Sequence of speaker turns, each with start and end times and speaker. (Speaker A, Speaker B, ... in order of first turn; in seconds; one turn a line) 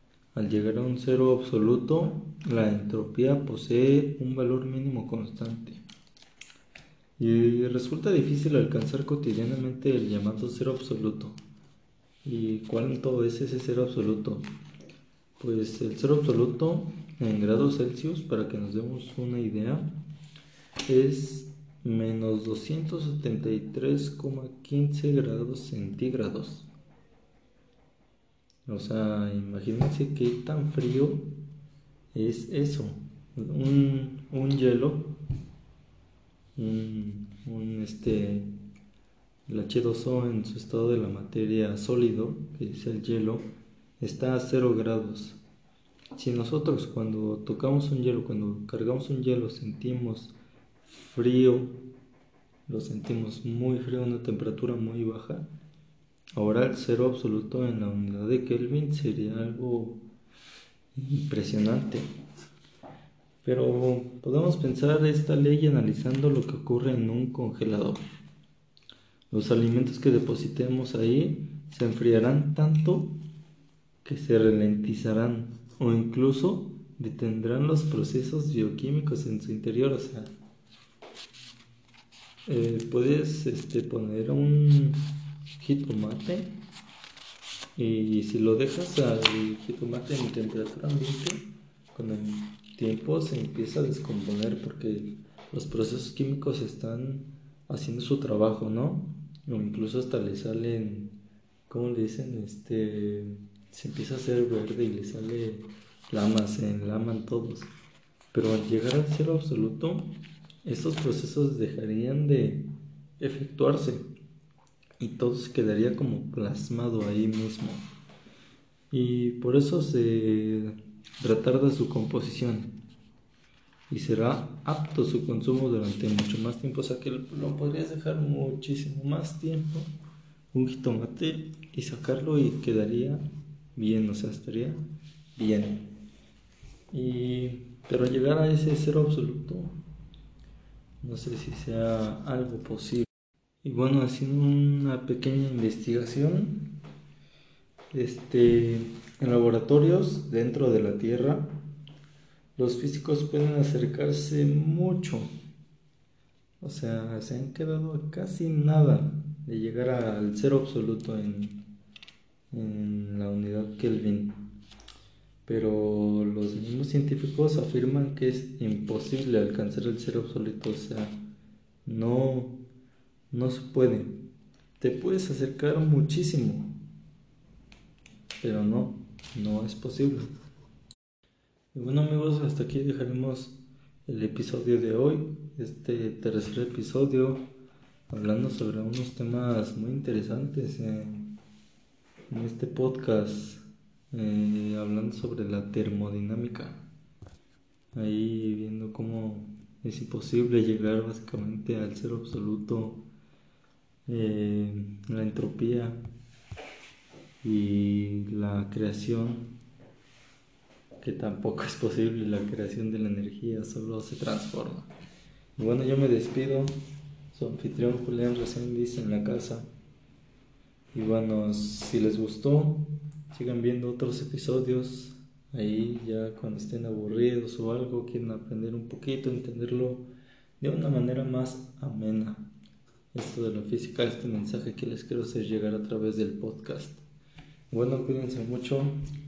Speaker A: 0.3-5.8
Speaker A: 7.2-11.4
Speaker A: 12.2-14.5
Speaker A: 15.4-19.9
Speaker A: 20.9-26.7
Speaker A: 28.6-31.3
Speaker A: 32.1-35.1
Speaker A: 36.5-38.5
Speaker A: 39.5-43.4
Speaker A: 44.0-45.4
Speaker A: 46.1-51.7
Speaker A: 52.7-55.5
Speaker A: 56.4-60.0
Speaker A: 60.9-62.1
Speaker A: 63.4-68.0
Speaker A: 69.3-73.1
Speaker A: 74.0-80.3
Speaker A: 82.5-85.0
Speaker A: 85.6-86.5
Speaker A: 87.8-101.2
Speaker A: 101.7-107.7
Speaker A: 108.3-112.7
Speaker A: 113.2-114.1
Speaker A: 115.0-117.8
Speaker A: 118.9-122.7
Speaker A: 123.9-129.9
Speaker A: 130.5-133.2
Speaker A: 133.7-134.8
Speaker A: 135.3-135.9
Speaker A: 136.9-139.8
Speaker A: 141.0-143.1
Speaker A: 143.6-146.7
Speaker A: 147.9-151.6
Speaker A: 152.6-155.3
Speaker A: 156.6-161.6
Speaker A: 162.5-164.4
Speaker A: 165.4-171.1
Speaker A: 171.8-172.6
Speaker A: 173.3-174.2
Speaker A: 174.8-176.8
Speaker A: 178.4-180.3
Speaker A: 181.7-183.6
Speaker A: 184.1-187.4
Speaker A: 188.1-191.4
Speaker A: 192.3-196.8
Speaker A: 197.9-203.0
Speaker A: 204.1-206.0
Speaker A: 207.4-209.6
Speaker A: 211.0-214.9
Speaker A: 215.6-216.8
Speaker A: 217.3-219.7
Speaker A: 220.9-230.1
Speaker A: 230.6-232.5
Speaker A: 233.1-237.0
Speaker A: 237.7-239.0